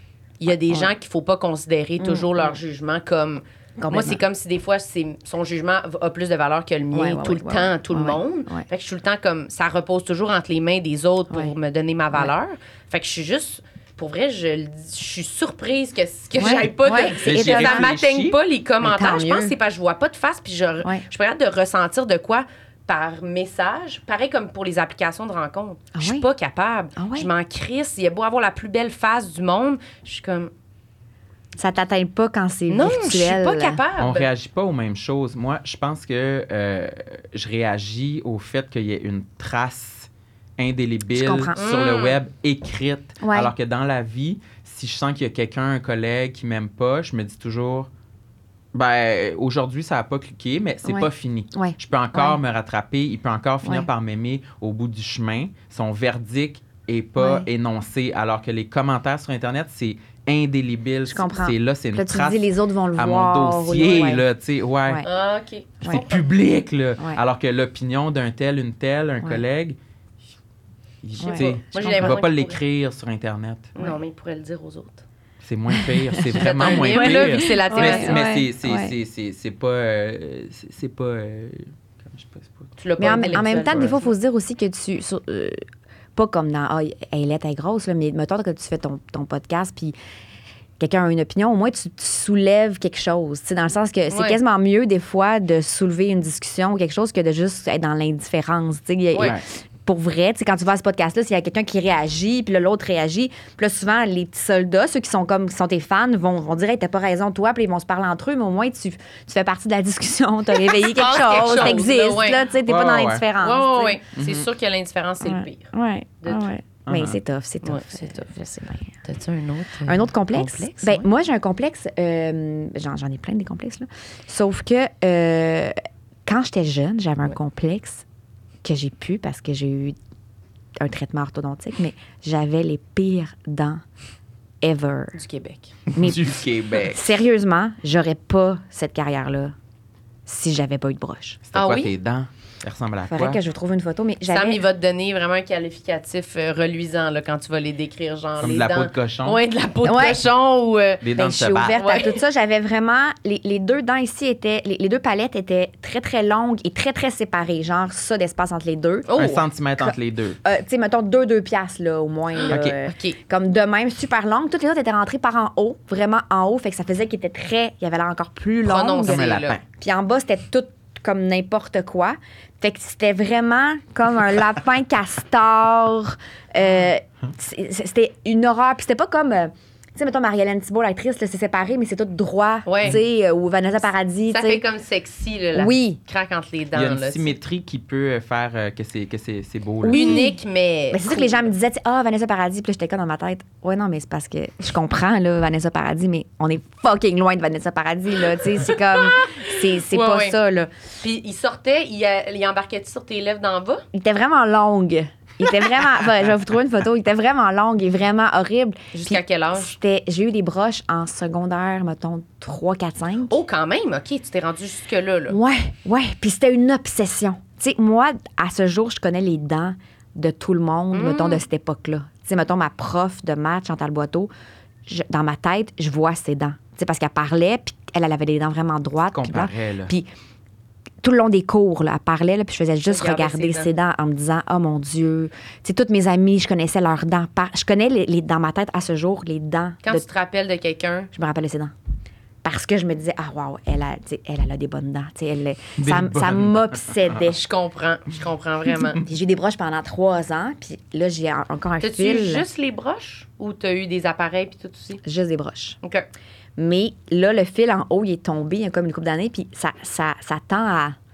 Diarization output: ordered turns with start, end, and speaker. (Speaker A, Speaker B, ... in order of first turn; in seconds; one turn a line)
Speaker A: 0.4-30.5
Speaker B: 2.0-2.6
Speaker B: 3.8-4.2
Speaker B: 6.9-8.7
Speaker B: 11.3-11.6
Speaker B: 16.4-17.9
Speaker C: 17.2-18.4
Speaker B: 18.8-19.5
Speaker B: 25.9-26.3
Speaker B: 27.0-27.3
Speaker B: 31.6-33.8
Speaker A: 32.7-34.3
Speaker C: 34.0-47.9
Speaker B: 41.1-41.6
Speaker A: 41.5-42.2
Speaker B: 43.2-43.5
Speaker C: 48.7-65.0
Speaker B: 50.9-52.4
Speaker B: 53.6-53.9
Speaker B: 57.2-57.5
Speaker B: 61.1-64.2
Speaker A: 65.0-66.2
Speaker C: 65.8-69.8
Speaker C: 71.0-73.7
Speaker B: 71.2-72.2
Speaker A: 71.2-72.6
Speaker A: 73.8-75.0
Speaker C: 75.4-84.0
Speaker B: 75.7-79.0
Speaker A: 76.3-78.2
Speaker A: 82.8-84.1
Speaker B: 83.0-85.6
Speaker B: 86.2-90.0
Speaker B: 90.8-114.0
Speaker A: 94.1-94.4
Speaker C: 99.2-99.4
Speaker A: 110.7-112.5
Speaker C: 112.6-113.3
Speaker A: 113.4-116.5
Speaker C: 114.2-114.5
Speaker B: 115.2-118.9
Speaker C: 116.9-117.2
Speaker A: 117.6-118.4
Speaker A: 119.0-121.1
Speaker B: 119.9-125.8
Speaker B: 126.3-128.1
Speaker B: 128.6-130.0
Speaker B: 130.8-133.8
Speaker B: 134.6-135.2
Speaker A: 135.1-135.8
Speaker C: 135.9-137.1
Speaker B: 135.9-139.5
Speaker B: 140.3-141.4
Speaker C: 141.5-143.4
Speaker A: 141.6-141.9
Speaker B: 143.1-144.6
Speaker A: 144.3-151.1
Speaker C: 148.4-149.4
Speaker B: 149.8-150.3
Speaker C: 151.0-151.8
Speaker B: 151.1-159.3
Speaker A: 151.7-152.2
Speaker A: 159.1-159.4
Speaker C: 159.2-160.4
Speaker B: 159.8-184.6
Speaker A: 162.4-163.2
Speaker C: 162.5-162.8
Speaker A: 168.6-169.6
Speaker C: 169.1-169.6
Speaker A: 182.7-183.0
Speaker A: 184.3-187.3
Speaker B: 185.5-186.0
Speaker C: 186.7-190.2
Speaker B: 189.8-190.4
Speaker A: 189.9-191.5
Speaker B: 190.9-200.7
Speaker A: 199.0-200.4
Speaker A: 201.0-203.9
Speaker B: 203.9-213.4
Speaker A: 208.9-209.7
Speaker A: 213.3-215.4
Speaker B: 215.3-224.3
Speaker A: 220.9-221.4
Speaker B: 224.9-230.1
Speaker C: 229.1-229.9
Speaker B: 231.0-240.1
Speaker A: 232.9-233.7
Speaker A: 239.8-241.1
Speaker B: 241.1-241.7
Speaker B: 242.4-247.4
Speaker C: 245.8-246.9
Speaker A: 247.2-249.0
Speaker B: 249.0-252.4
Speaker A: 251.8-255.0
Speaker B: 255.0-255.8
Speaker B: 256.6-261.0